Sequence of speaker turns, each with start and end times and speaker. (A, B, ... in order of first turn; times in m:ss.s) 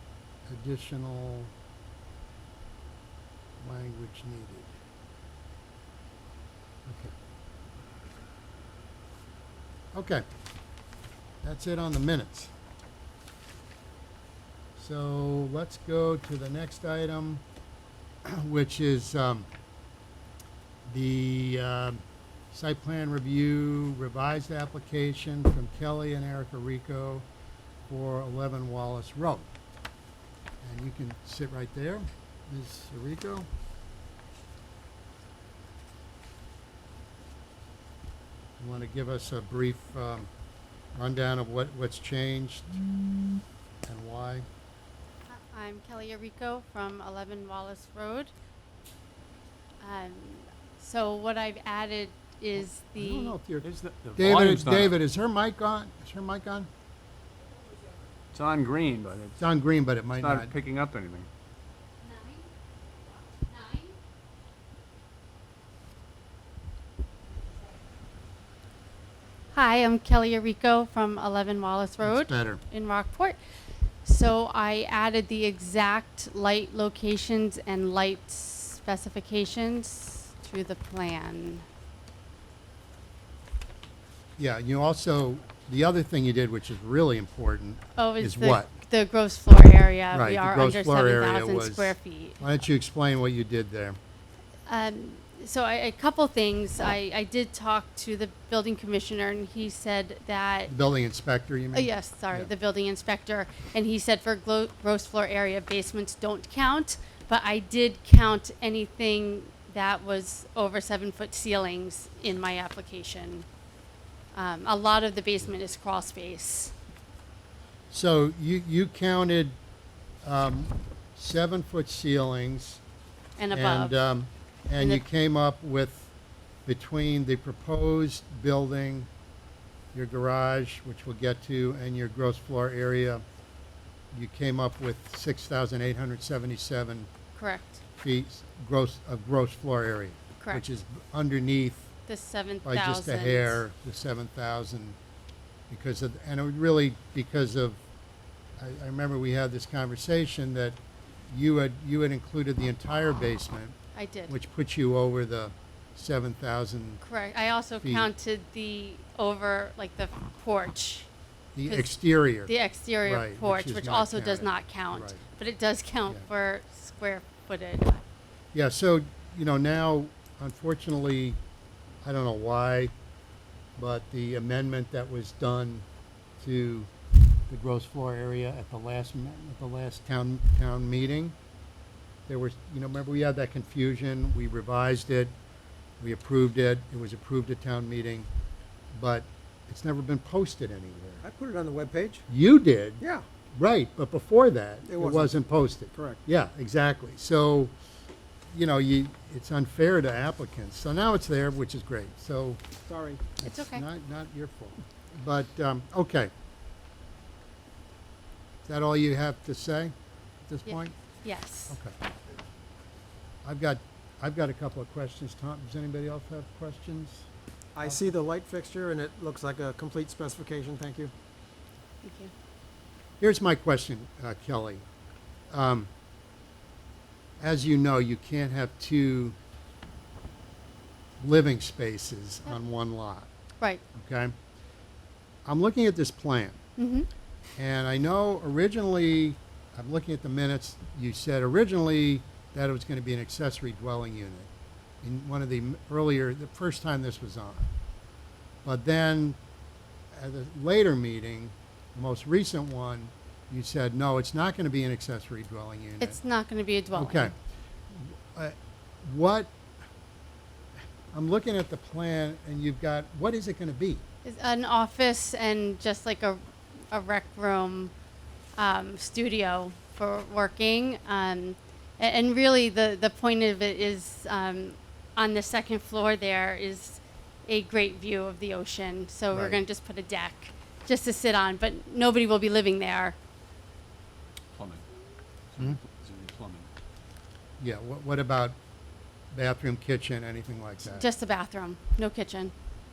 0:00.4-0:01.5 A
0:03.6-0:04.7 A
0:06.8-0:07.1 A
0:09.9-0:10.2 A
0:11.4-0:12.5 A
0:14.8-0:17.4 A
0:18.2-0:19.5 A
0:20.9-0:27.2 A
0:27.9-0:29.5 A
0:30.6-0:33.5 A
0:38.6-0:40.3 A
0:40.9-0:42.8 A
0:43.8-0:44.4 A
0:45.3-0:48.3 B
0:49.8-0:53.4 B
0:52.5-0:56.7 A
0:53.6-0:55.0 C
0:58.3-0:59.4 C
0:59.4-1:00.5 A
1:00.2-1:01.3 C
1:02.0-1:02.5 B
1:03.3-1:03.9 B
1:09.5-1:13.4 B
1:12.0-1:12.6 A
1:14.0-1:21.6 B
1:24.4-1:28.7 A
1:28.0-1:32.4 B
1:30.1-1:34.0 A
1:34.7-1:40.7 B
1:40.7-1:42.5 A
1:41.7-1:53.4 B
1:54.3-1:56.7 B
1:57.9-1:59.6 A
2:00.2-2:02.8 A
2:03.4-2:04.0 B
2:03.5-2:06.1 A
2:06.6-2:09.1 A
2:09.9-2:13.2 A
2:14.1-2:17.1 A
2:17.4-2:17.8 B
2:18.0-2:21.9 A
2:22.1-2:23.6 B
2:22.6-2:25.0 A
2:25.7-2:27.8 A
2:28.6-2:30.8 A
2:31.3-2:33.8 A
2:33.9-2:34.3 B
2:34.3-2:37.0 A
2:37.0-2:41.1 B
2:37.8-2:38.1 A
2:41.5-2:42.5 A
2:41.7-2:41.9 B
2:42.4-2:48.0 B
2:43.0-2:45.2 A
2:48.5-2:51.4 A
2:52.0-2:52.9 A
2:53.8-2:55.8 A
2:56.4-2:56.9 A
2:57.5-3:01.3 A
3:02.3-3:05.3 A
3:06.0-3:08.3 A
3:08.9-3:11.2 A
3:11.2-3:12.2 D
3:12.3-3:13.0 A
3:13.6-3:17.7 A
3:14.9-3:15.4 D
3:15.9-3:16.2 D
3:18.5-3:22.6 A
3:22.9-3:23.2 D
3:23.4-3:26.3 A
3:23.4-3:23.8 B
3:28.6-3:30.9 A
3:30.7-3:31.8 B
3:31.7-3:32.0 A
3:33.4-3:37.3 A
3:37.7-3:41.1 D
3:42.0-3:42.3 B
3:43.2-3:44.8 A
3:45.5-3:45.9 A
3:47.4-3:49.4 A
3:51.2-3:53.3 A
3:53.9-3:54.3 A
3:55.4-3:56.6 A
3:56.8-3:57.1 B
3:57.6-4:04.5 A
4:05.0-4:07.7 A
4:08.6-4:09.4 A
4:10.1-4:16.2 A
4:16.0-4:17.3 B
4:16.9-4:17.3 A
4:17.9-4:19.5 A
4:21.1-4:24.0 A
4:24.2-4:27.9 B
4:28.6-4:43.2 B
4:39.3-4:39.6 A
4:44.5-4:44.8 C
4:45.5-4:46.7 C
4:47.6-4:48.6 A
4:49.3-4:51.0 A
4:50.8-4:52.5 B